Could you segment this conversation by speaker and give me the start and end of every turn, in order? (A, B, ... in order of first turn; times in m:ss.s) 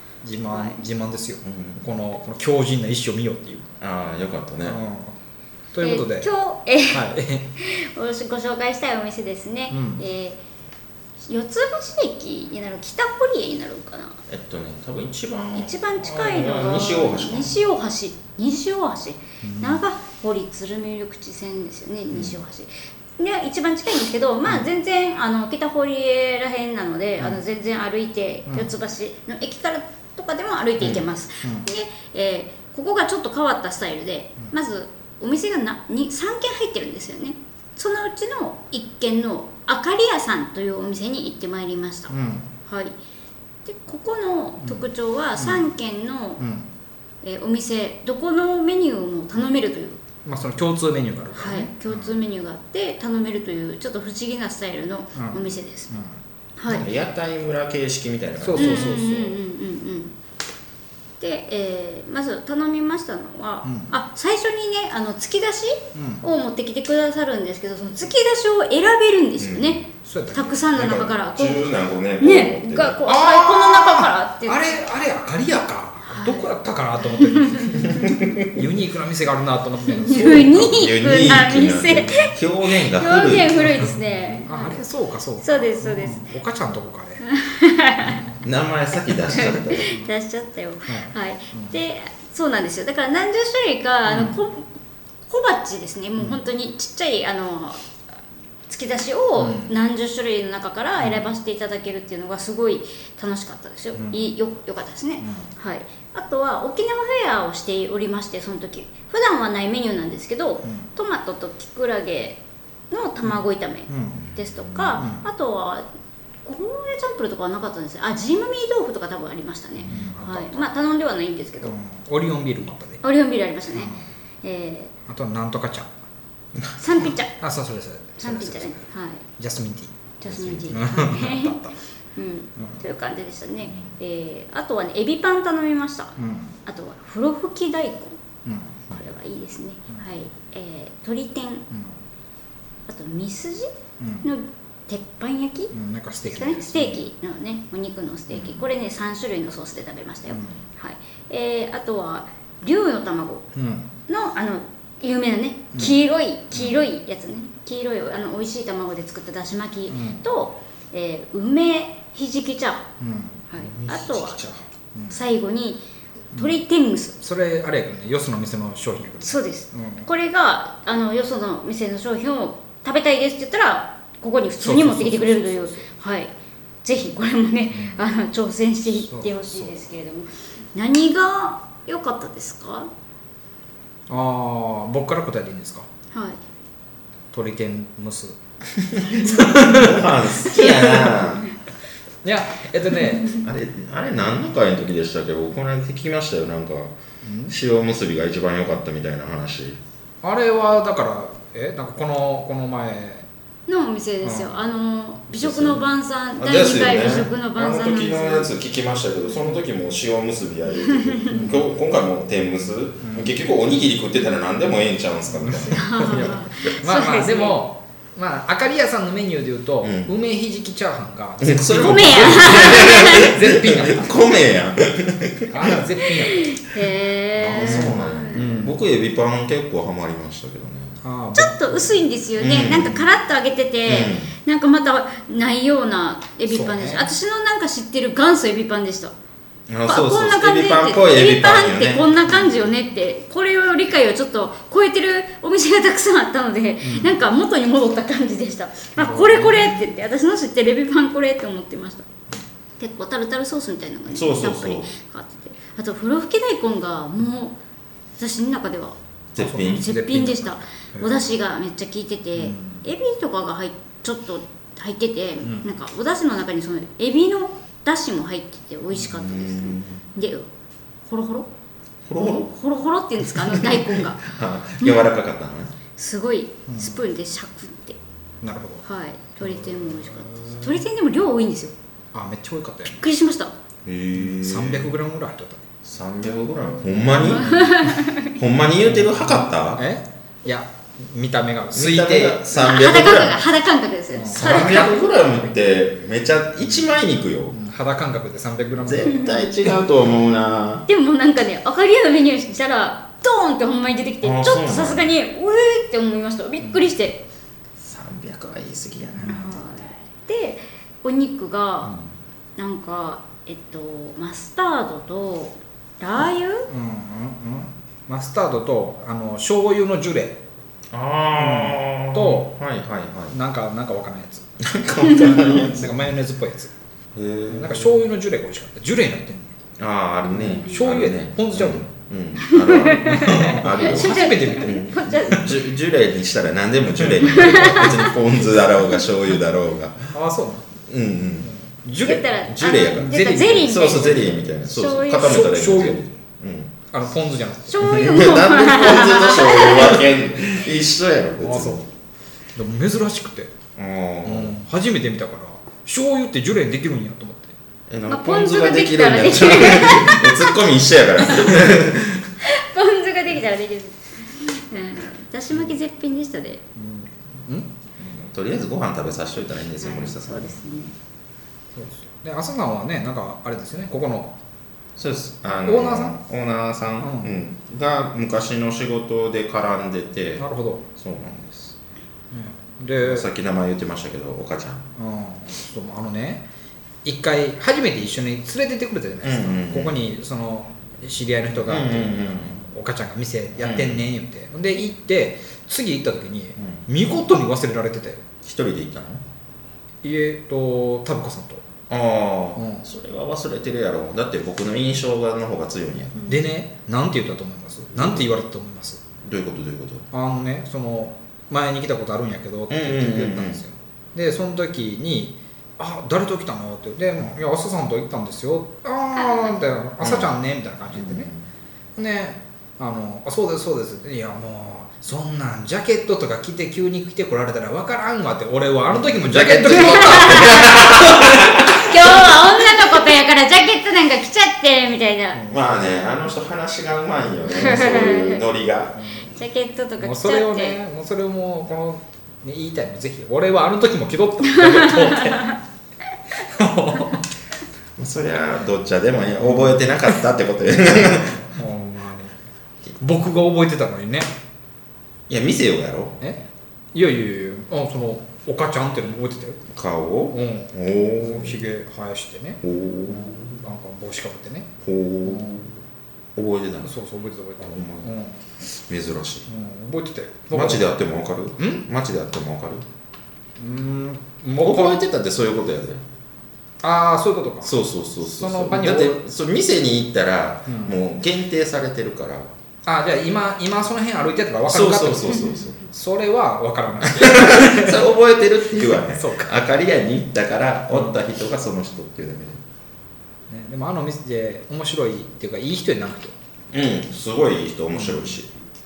0:00.2-0:03.7 A
0:00.5-0:00.8 B
0:01.4-0:01.8 C
0:03.8-0:04.8 C
0:04.7-0:05.2 A
0:05.7-0:06.3 A
0:05.8-0:10.4 B
0:06.9-0:07.5 A
0:09.7-0:10.0 A
0:11.2-0:14.2 B
0:14.3-0:17.6 C
0:15.6-0:42.1 B
0:19.4-0:19.8 A
0:22.1-0:22.4 C
0:30.8-0:31.1 C
0:31.4-0:31.7 A
0:42.1-0:42.5 A
0:42.7-0:43.0 B
0:43.7-0:46.4 B
0:45.4-0:45.7 A
0:46.4-0:46.7 A
0:47.2-0:50.0 B
0:50.2-0:52.1 A
0:51.4-0:55.9 B
0:55.2-0:56.2 A
0:56.6-0:56.9 B
0:56.7-0:59.0 C
0:58.4-0:59.4 A
0:58.6-1:00.1 B
1:01.2-1:14.6 B
1:03.6-1:03.9 A
1:06.0-1:06.2 A
1:09.4-1:09.8 C
1:10.0-1:10.6 A
1:10.7-1:13.0 C
1:13.1-1:20.5 A
1:16.1-1:16.5 B
1:17.1-1:18.1 B
1:17.9-1:18.5 C
1:19.9-1:24.8 B
1:20.1-1:23.8 C
1:23.6-1:27.2 A
1:25.4-1:26.3 B
1:27.2-1:28.3 B
1:28.0-1:28.4 A
1:28.4-1:29.9 C
1:29.3-1:34.7 B
1:29.8-1:30.1 A
1:30.9-1:31.8 A
1:34.1-1:34.4 A
1:35.3-1:37.9 B
1:38.7-1:52.4 B
1:39.4-1:39.7 A
1:44.0-1:44.2 A
1:45.2-1:45.5 A
1:52.9-1:55.8 B
1:53.9-1:54.2 A
1:54.7-1:55.2 A
1:56.4-2:01.7 B
1:59.8-2:00.1 C
1:59.8-2:00.7 A
2:01.6-2:03.0 A
2:03.0-2:04.9 B
2:03.7-2:04.0 A
2:05.1-2:05.9 A
2:06.6-2:07.1 C
2:06.8-2:07.3 B
2:07.4-2:08.8 A
2:08.2-2:09.2 B
2:09.4-2:09.9 A
2:10.2-2:11.6 B
2:10.3-2:10.6 C
2:10.7-2:11.8 A
2:12.2-2:16.2 B
2:16.2-2:16.5 A
2:16.7-2:18.2 B
2:18.5-2:19.0 A
2:18.9-2:21.6 B
2:21.7-2:22.0 A
2:22.9-2:23.7 B
2:24.0-2:24.3 A
2:24.2-2:25.7 B
2:25.7-2:27.0 A
2:26.3-2:33.4 B
2:28.3-2:28.6 A
2:30.3-2:30.6 A
2:33.6-2:33.9 A
2:34.1-2:42.9 B
2:39.9-2:40.2 A
2:43.0-2:43.4 A
2:43.5-2:44.5 B
2:43.6-2:44.6 C
2:45.1-2:45.8 B
2:46.3-2:47.2 B
2:47.2-2:50.1 A
2:49.2-2:56.3 B
2:54.6-2:55.9 A
2:56.8-3:02.9 B
2:57.7-2:58.0 A
2:59.0-2:59.7 A
3:04.1-3:05.9 A
3:06.1-3:06.4 B
3:07.3-3:08.4 A
3:08.8-3:11.5 C
3:09.2-3:10.0 A
3:10.5-3:11.2 A
3:12.2-3:13.3 A
3:13.3-3:16.9 C
3:17.2-3:17.5 A
3:17.5-3:19.8 C
3:20.2-3:23.3 A
3:23.7-3:28.5 B
3:24.2-3:24.6 A
3:25.3-3:25.9 C
3:26.4-3:36.3 C
3:30.9-3:31.4 B
3:31.3-3:31.7 A
3:33.0-3:33.3 A
3:35.3-3:44.2 A
3:35.7-3:37.6 B
3:39.8-3:40.1 C
3:41.4-3:45.8 C
3:41.7-3:43.3 B
3:45.5-3:46.6 A
3:46.2-3:48.5 B
3:47.4-3:48.8 A
3:47.5-3:51.0 C
3:51.0-3:52.0 A
3:51.4-3:59.1 B
3:52.4-3:53.1 C
3:53.9-3:54.3 C
3:56.5-3:57.1 A
3:59.7-4:02.1 C
3:59.9-4:12.0 B
4:06.8-4:07.2 A
4:09.0-4:09.8 A
4:12.8-4:17.6 B
4:14.1-4:14.9 C
4:18.2-4:19.0 B
4:19.4-4:19.9 C
4:19.4-4:21.2 A
4:19.6-4:30.5 B
4:22.4-4:22.9 A
4:29.1-4:30.0 C
4:31.1-4:31.5 B
4:32.1-4:32.5 C
4:32.2-4:34.3 B
4:33.3-4:35.7 C
4:34.8-4:35.1 B
4:36.0-4:38.0 B
4:36.7-4:37.0 A
4:38.4-4:38.8 A
4:38.8-4:41.7 B
4:39.4-4:40.8 A
4:42.1-4:43.0 A
4:42.9-4:43.5 B
4:43.8-4:45.0 C
4:44.2-4:45.6 A
4:45.8-4:47.6 C
4:47.2-4:48.4 B
4:47.2-4:48.0 A
4:48.4-4:49.8 C
4:48.9-4:52.4 A
4:51.7-4:53.4 C
4:52.5-4:55.0 B
4:54.2-4:54.9 A
4:54.3-4:57.6 C
4:57.5-4:59.3 A
4:58.8-5:00.9 C
4:59.1-4:59.5 B
5:00.9-5:07.2 B
5:04.2-5:05.1 C
5:07.8-5:09.8 C
5:09.2-5:09.5 A
5:09.2-5:12.0 B
5:12.6-5:16.7 B
5:16.7-5:20.4 A
5:20.9-5:23.4 C
5:21.4-5:22.5 A
5:23.3-5:24.5 A
5:24.6-5:26.0 C
5:25.1-5:26.7 A
5:27.2-5:27.9 C
5:27.5-5:29.6 A
5:29.8-5:40.1 C
5:30.3-5:30.8 B
5:30.4-5:31.9 A
5:32.4-5:35.6 B
5:33.1-5:34.8 A
5:37.0-5:37.9 A
5:37.3-5:38.1 B
5:40.1-5:40.7 A
5:40.8-5:41.5 C
5:41.4-5:43.9 A
5:42.0-5:45.5 B
5:42.5-5:46.7 C
5:45.2-5:46.0 A
5:46.9-5:48.0 A
5:47.7-5:50.0 B
5:47.8-5:51.8 C
5:51.4-5:51.8 A
5:52.6-5:53.5 A
5:53.8-5:54.5 C
5:54.2-5:57.5 A
5:57.9-6:02.3 C
5:58.1-6:00.5 B
6:01.3-6:01.5 B
6:02.4-6:06.6 B
6:06.8-6:07.7 A
6:08.0-6:10.6 C
6:09.8-6:11.0 B
6:11.8-6:14.3 A
6:15.0-6:21.8 C
6:15.5-6:16.2 A
6:17.0-6:17.3 A
6:20.4-6:20.9 A
6:22.3-6:23.3 A
6:23.0-6:24.8 C
6:25.0-6:26.4 A
6:27.0-6:38.2 A
6:29.2-6:30.0 C
6:31.7-6:32.6 C
6:33.6-6:34.0 C
6:38.4-6:39.2 C
6:40.0-6:41.6 A
6:41.9-6:46.3 C
6:42.6-6:42.9 A
6:46.3-6:49.0 A
6:48.0-6:48.3 C
6:49.2-6:50.1 C
6:50.1-7:01.3 A
6:52.7-6:53.6 C
7:00.0-7:00.3 C
7:00.9-7:01.4 C
7:02.0-7:11.6 A
7:08.9-7:12.4 C
7:09.8-7:15.4 B
7:15.3-7:15.7 A
7:15.5-7:19.2 C
7:17.5-7:18.4 B
7:19.0-7:19.3 A
7:19.3-7:20.8 B
7:20.0-7:25.6 A
7:24.6-7:25.5 B
7:26.4-7:27.2 A
7:28.0-7:31.5 C
7:29.4-7:29.8 A
7:31.5-7:32.4 A
7:33.0-7:34.3 A
7:35.3-7:36.2 C
7:36.9-7:39.6 A
7:39.7-7:41.6 C
7:40.3-7:44.7 A
7:42.6-7:43.5 C
7:44.8-7:45.7 C
7:45.2-7:45.7 A
7:46.4-7:46.9 C
7:46.8-7:48.4 A
7:47.6-7:48.1 C
7:48.9-7:49.5 C
7:49.5-7:50.9 A
7:50.5-7:52.9 C
7:51.6-7:51.8 A
7:53.6-7:55.0 A
7:54.6-7:56.0 C
7:56.8-7:57.7 A
7:57.6-8:02.5 C
7:58.4-7:59.2 A
8:00.7-8:01.0 A
8:02.9-8:08.0 A
8:04.6-8:05.8 C
8:07.0-8:12.6 C
8:08.8-8:09.5 A
8:10.9-8:11.2 A
8:13.5-8:16.4 A
8:16.7-8:18.5 C
8:18.0-8:18.4 A